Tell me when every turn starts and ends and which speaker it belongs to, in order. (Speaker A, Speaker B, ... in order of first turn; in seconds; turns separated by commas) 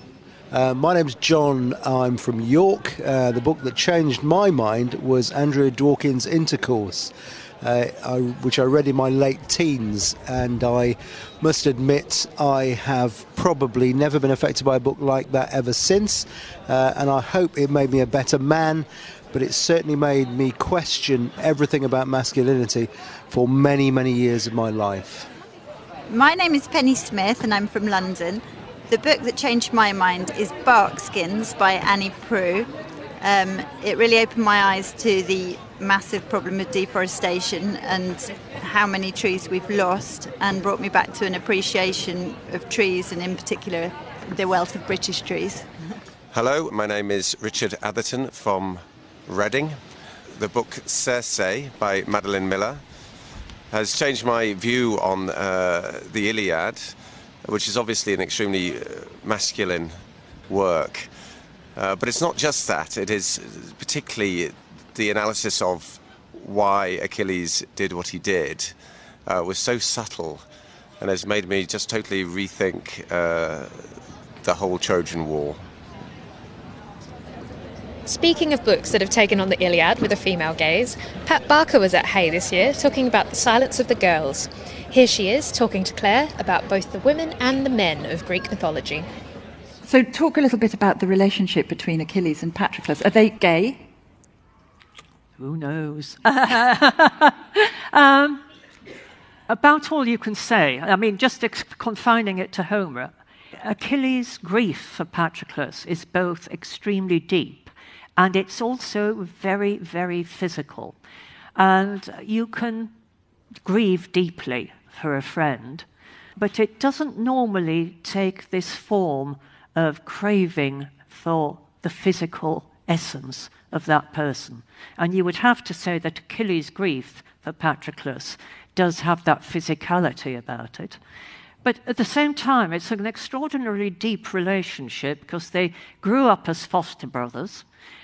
Speaker A: 0.5-25.3, Speaker B: 26.1-45.7, Speaker C: 46.3-52.8, Speaker C: 53.7-61.1, Speaker C: 61.8-68.8, Speaker C: 69.3-70.4, Speaker C: 71.0-75.6, Speaker D: 78.1-89.1, Speaker E: 89.8-93.8, Speaker F: 95.4-98.4, Speaker F: 99.5-111.0, Speaker F: 111.6-112.9, Speaker F: 113.7-131.0, Speaker F: 131.6-137.6